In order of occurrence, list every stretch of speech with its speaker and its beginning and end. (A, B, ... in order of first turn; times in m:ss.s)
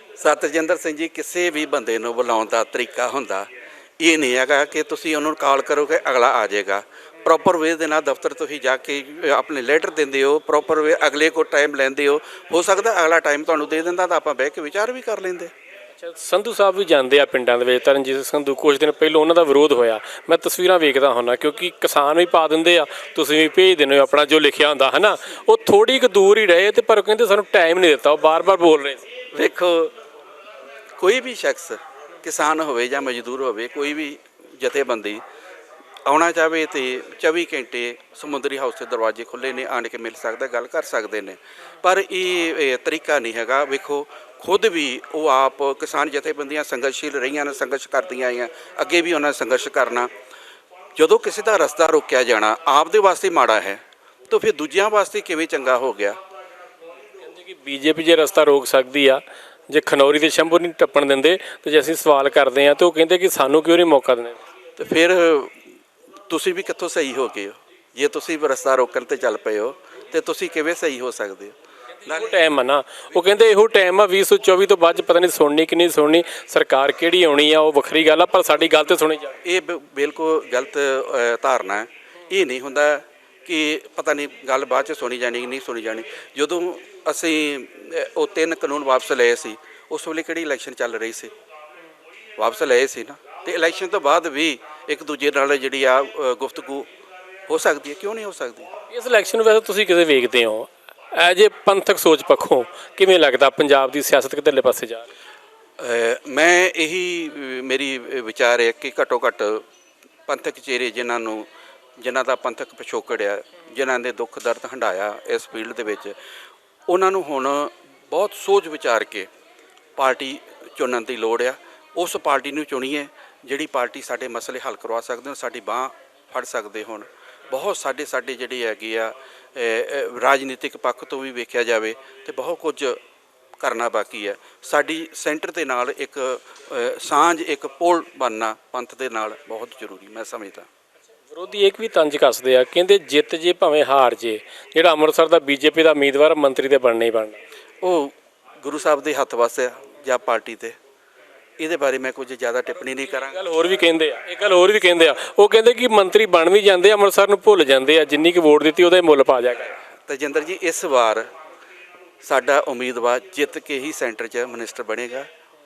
0:00.2-0:03.5 A
0:04.0-0:15.5 A
0:16.0-0:29.0 B
0:29.4-0:29.9 A
0:31.0-0:35.2 A
0:36.1-0:50.1 A
0:51.0-0:56.2 A
0:57.3-1:04.4 B
1:04.8-1:05.6 A
1:06.3-1:11.6 A
1:12.0-1:19.4 B
1:12.1-1:12.3 A
1:19.4-1:31.3 A
1:32.4-1:36.9 A
1:37.5-1:38.7 A
1:38.9-1:45.1 B
1:45.8-1:49.6 A
1:50.3-1:51.5 A
1:52.0-1:56.2 A
1:56.9-1:59.3 A
2:00.0-2:13.0 A
2:13.6-2:20.7 A
2:21.3-2:27.4 B
2:27.8-2:30.8 A
2:31.6-2:33.4 A
2:33.1-2:39.7 B
2:40.1-2:41.3 A
2:42.2-2:45.3 A